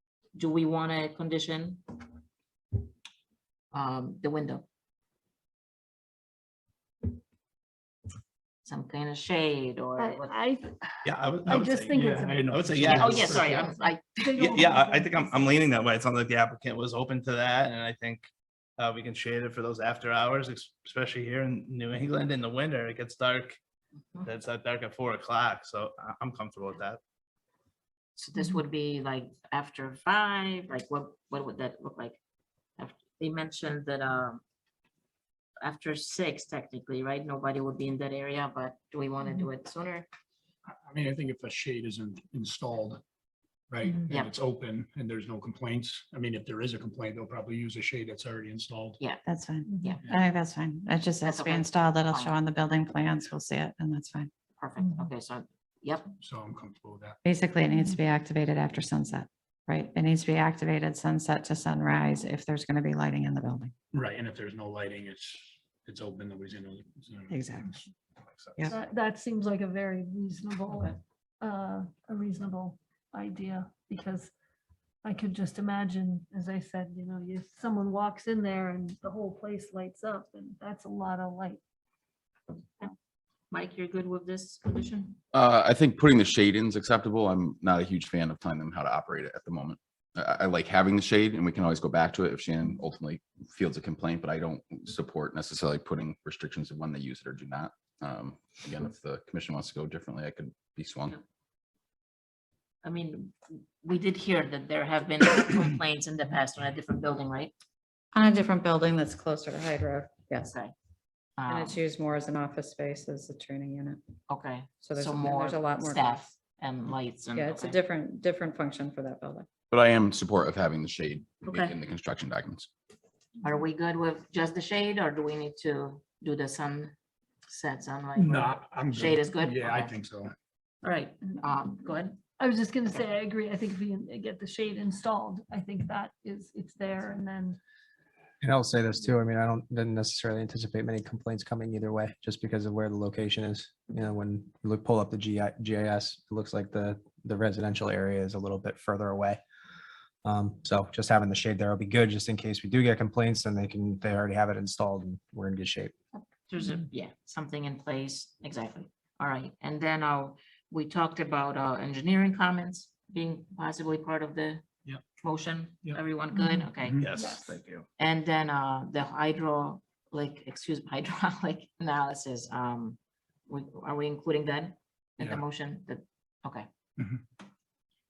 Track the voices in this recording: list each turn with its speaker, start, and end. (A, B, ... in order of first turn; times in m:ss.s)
0:00.4-0:02.0 A
0:03.7-0:04.6 A
0:08.7-0:10.4 A
0:10.0-0:12.7 B
0:11.0-0:13.7 C
0:12.6-0:13.5 D
0:12.9-0:14.4 A
0:13.4-0:15.5 B
0:14.4-0:23.6 C
0:24.2-0:27.0 C
0:28.2-0:32.2 A
0:32.8-0:34.4 A
0:35.6-0:40.1 A
0:40.7-0:43.0 D
0:43.7-0:49.0 D
0:49.2-0:54.3 E
0:49.7-0:50.0 B
0:51.2-0:52.4 A
0:54.6-0:56.2 A
0:54.8-0:55.1 B
0:56.2-0:57.2 D
0:57.2-1:03.7 E
1:03.9-1:07.9 D
1:07.3-1:07.8 E
1:08.7-1:14.3 B
1:15.0-1:21.6 B
1:23.5-1:25.2 A
1:25.3-1:41.2 F
1:42.8-1:47.5 A
1:48.1-1:50.5 E
1:50.4-1:50.7 A
1:51.4-1:51.8 A
1:51.5-1:54.0 E
1:54.3-1:57.8 A
1:54.8-1:56.3 E
1:57.3-1:59.5 E
1:59.7-2:02.7 F
2:01.5-2:01.8 A
2:03.4-2:06.9 A
2:07.5-2:10.0 A
2:08.2-2:10.3 D
2:10.8-2:12.2 A
2:12.4-2:17.6 B
2:18.4-2:29.4 G
2:30.3-2:35.9 G
2:36.5-2:44.6 A
2:45.2-2:47.1 A
2:46.4-2:46.6 B
2:46.8-2:47.1 D
2:47.0-2:47.8 C
2:47.2-2:47.5 B
2:48.0-2:56.7 A